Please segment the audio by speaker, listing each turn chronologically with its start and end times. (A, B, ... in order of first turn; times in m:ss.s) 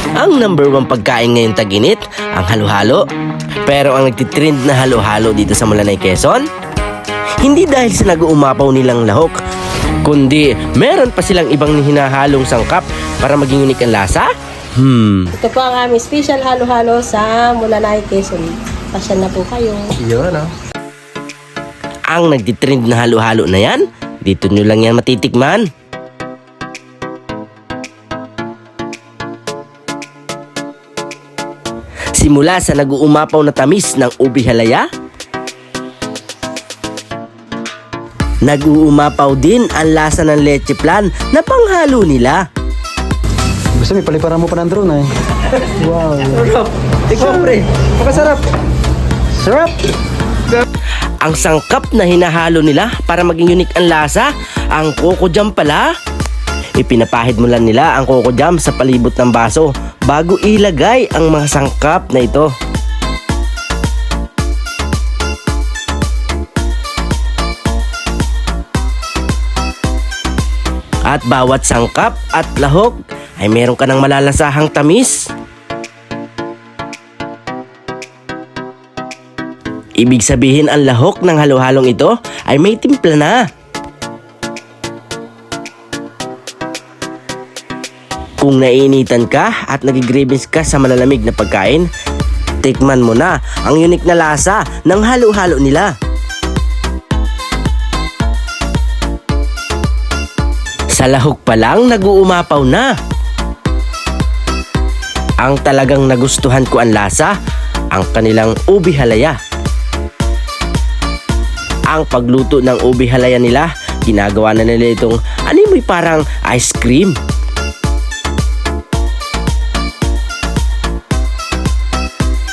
0:00.2-0:03.0 A
0:03.7-0:06.5 A
0:07.4-0:09.4 A
0:10.0-0:15.3 A
0:15.4-0:20.0 B
0:20.1-0:20.5 C
0:22.1-0:25.7 A
0:32.2-0:34.8 A
0:38.4-0:42.4 A
0:43.8-0:45.1 C
0:45.6-0:46.5 C
0:46.3-0:48.4 A
0:47.1-0:48.0 C
0:49.4-0:49.8 C
0:51.2-0:55.9 A
0:56.8-1:02.5 A
1:11.1-1:15.3 A
1:20.0-1:23.4 A
1:28.4-1:31.9 A
1:32.6-1:35.9 A
1:41.0-1:42.9 A
1:45.4-1:47.3 A
1:47.9-1:49.4 A
1:51.9-1:57.2 A